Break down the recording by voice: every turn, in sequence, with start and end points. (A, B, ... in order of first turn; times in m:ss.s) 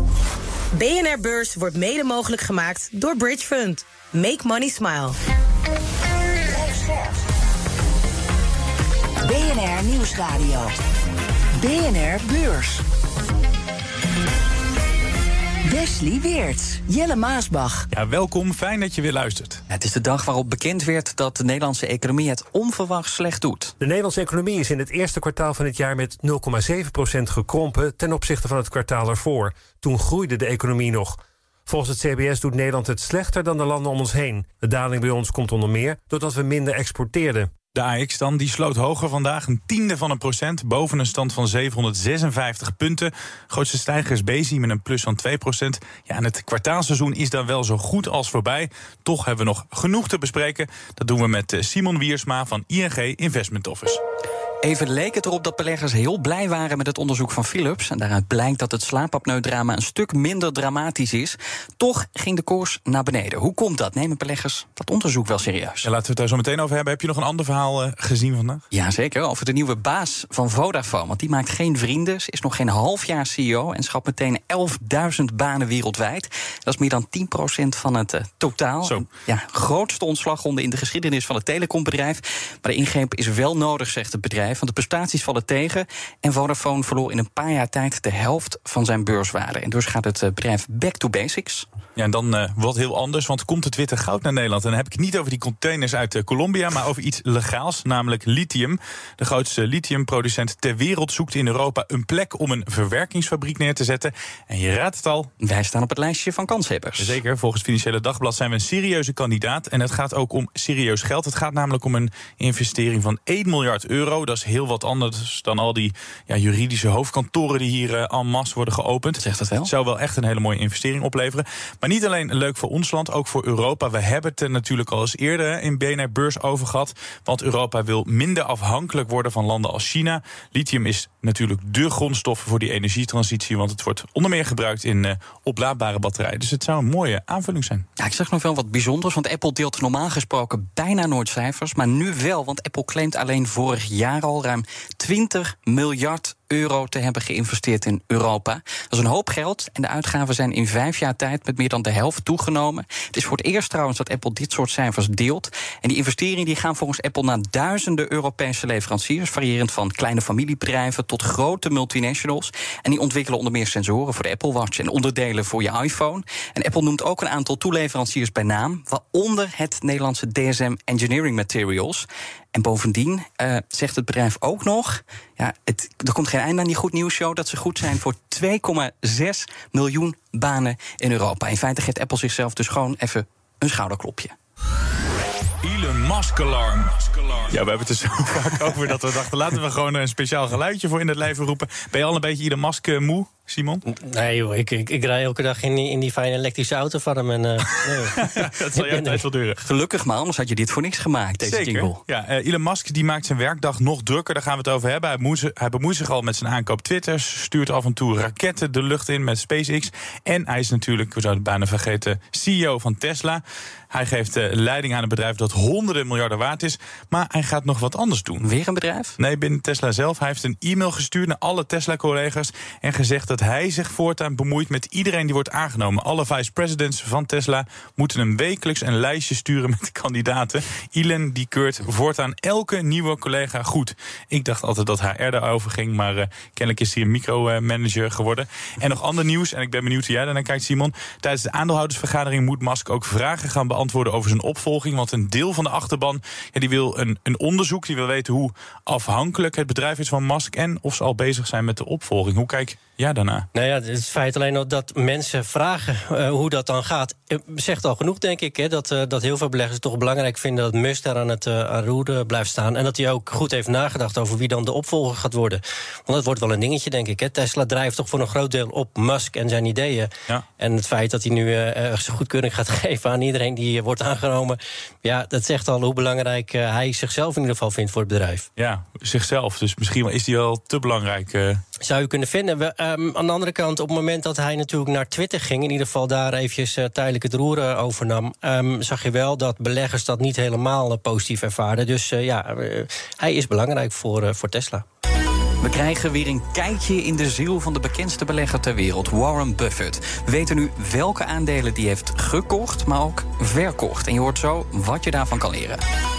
0:00.7-0:05.2 A
0:06.5-0:07.1 B
0:09.2-0:10.7 B
0:11.6-0:12.8 B
0:15.6-0:17.9 B
0:17.9-0:19.6 C
0:19.7-0:23.7 D
0:23.8-0:37.5 E
0:37.7-0:54.0 C
0:54.6-1:05.9 D
1:05.8-1:08.6 C
1:08.7-1:31.7 D
1:32.0-1:45.3 C
1:45.4-1:47.2 D
1:47.0-2:17.8 C
1:59.2-1:59.7 D
2:18.0-3:04.3 D
3:05.6-3:13.8 C
3:13.9-3:19.2 F
3:18.0-3:19.6 C
3:19.6-3:22.0 D
3:21.4-3:38.5 C
3:38.4-3:39.2 D
3:39.2-4:13.5 C
4:13.5-4:38.5 F
4:38.6-4:41.6 C
4:41.8-4:54.8 F
4:55.6-5:05.8 D